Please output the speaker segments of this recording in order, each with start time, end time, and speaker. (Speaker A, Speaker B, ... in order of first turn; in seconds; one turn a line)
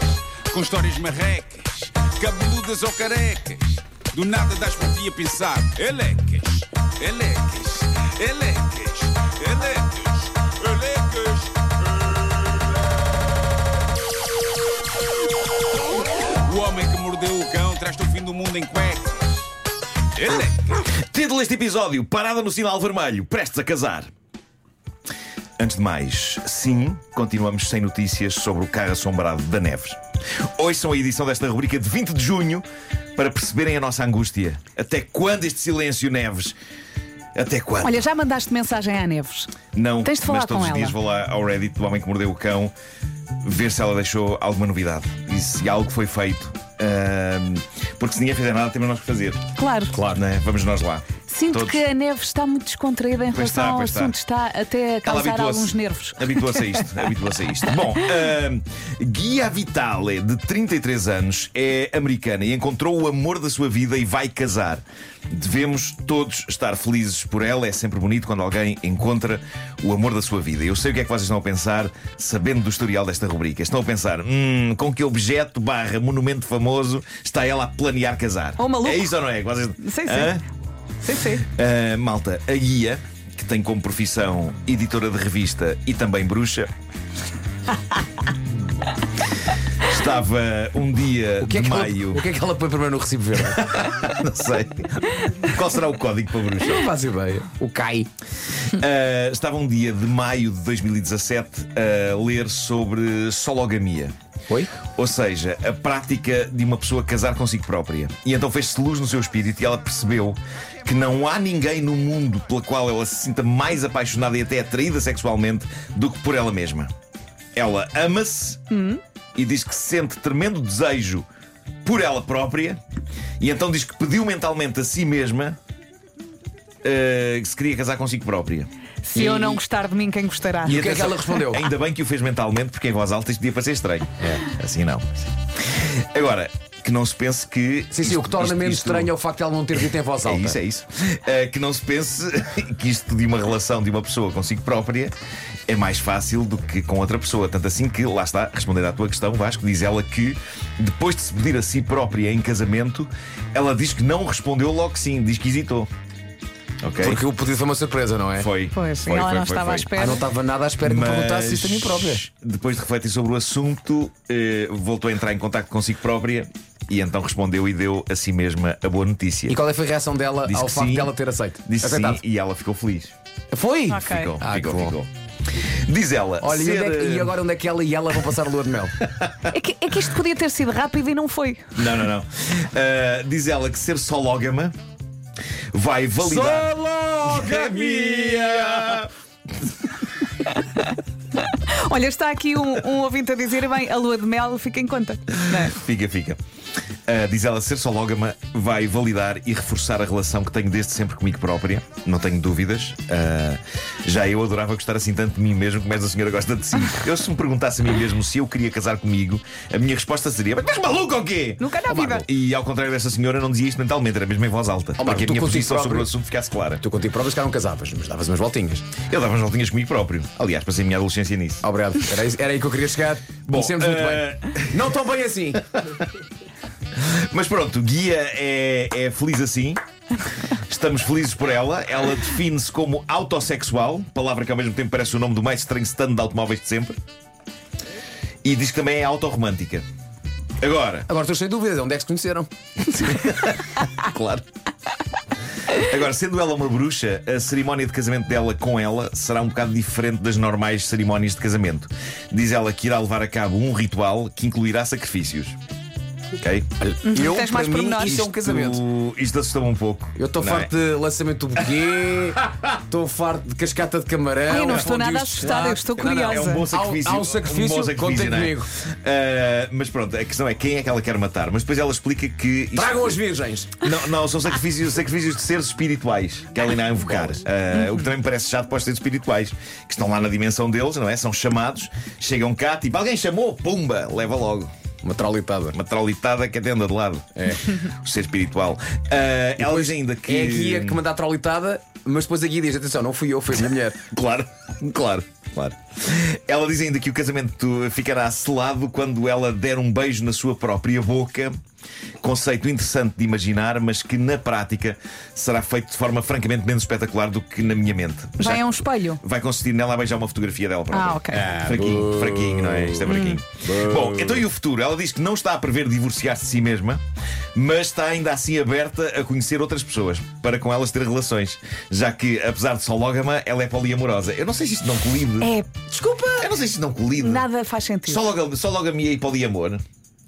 Speaker A: 0.5-12.6
Speaker A: 16.4-19.5
Speaker A: 20.1-20.8
Speaker B: 20.9-24.1
Speaker B: 25.6-30.0
Speaker B: 30.6-36.6
Speaker B: 37.4-38.1
Speaker C: 37.8-41.0
Speaker B: 39.7-42.7
Speaker B: 43.4-51.8
Speaker C: 49.6-50.0
Speaker C: 51.3-56.8
Speaker B: 53.3-54.2
Speaker B: 55.0-80.4
Speaker C: 78.6-79.1
Speaker C: 79.8-80.4
Speaker C: 81.0-81.5
Speaker B: 81.4-86.7
Speaker B: 89.8-92.2
Speaker D: 91.4-93.6
Speaker B: 93.5-96.9
Speaker D: 96.6-98.1
Speaker B: 98.7-104.1
Speaker B: 104.8-116.9
Speaker B: 117.6-118.7
Speaker C: 118.7-119.0
Speaker B: 119.4-121.2
Speaker B: 121.8-122.8
Speaker B: 123.4-125.6
Speaker B: 126.8-128.7
Speaker C: 129.1-130.8
Speaker D: 129.2-129.6
Speaker D: 130.7-131.7
Speaker B: 130.7-139.1
Speaker D: 137.9-140.6
Speaker B: 140.2-145.2
Speaker B: 145.7-155.9
Speaker B: 156.8-157.2
Speaker D: 157.0-158.5
Speaker B: 158.4-160.1
Speaker C: 158.7-160.2
Speaker D: 160.0-162.2
Speaker B: 160.8-169.6
Speaker D: 169.5-172.2
Speaker B: 170.5-171.1
Speaker B: 171.7-173.1
Speaker D: 173.5-174.9
Speaker C: 173.9-174.3
Speaker B: 173.9-175.1
Speaker B: 175.9-177.4
Speaker D: 176.4-179.1
Speaker B: 179.1-179.5
Speaker C: 179.5-181.6
Speaker B: 181.8-184.7
Speaker B: 185.7-189.1
Speaker D: 186.2-189.0
Speaker C: 190.5-195.8
Speaker B: 195.7-196.4
Speaker B: 197.1-216.8
Speaker C: 211.6-212.3
Speaker D: 211.9-212.2
Speaker D: 215.0-216.1
Speaker D: 216.8-218.9
Speaker B: 219.0-221.7
Speaker D: 221.6-225.6
Speaker B: 223.5-224.9
Speaker B: 227.0-229.8
Speaker B: 230.7-237.0
Speaker B: 238.4-239.8
Speaker B: 240.6-241.1
Speaker D: 241.1-242.5
Speaker B: 242.8-244.4
Speaker B: 245.7-255.6
Speaker B: 256.4-256.7
Speaker D: 256.8-258.8
Speaker C: 257.1-258.3
Speaker B: 258.1-260.7
Speaker D: 260.2-268.7
Speaker C: 264.5-266.7
Speaker B: 264.6-273.1
Speaker D: 272.8-273.8
Speaker B: 273.8-284.7
Speaker D: 285.0-285.8
Speaker B: 285.7-291.0
Speaker D: 287.4-287.7
Speaker D: 289.6-294.0
Speaker B: 294.1-301.5
Speaker B: 302.2-317.0
Speaker C: 308.4-309.2
Speaker C: 310.9-311.6
Speaker D: 311.7-312.0
Speaker C: 313.1-313.4
Speaker B: 317.6-325.5
Speaker C: 325.4-326.4
Speaker D: 326.1-326.4
Speaker B: 326.4-327.5
Speaker C: 327.2-328.2
Speaker B: 328.1-329.8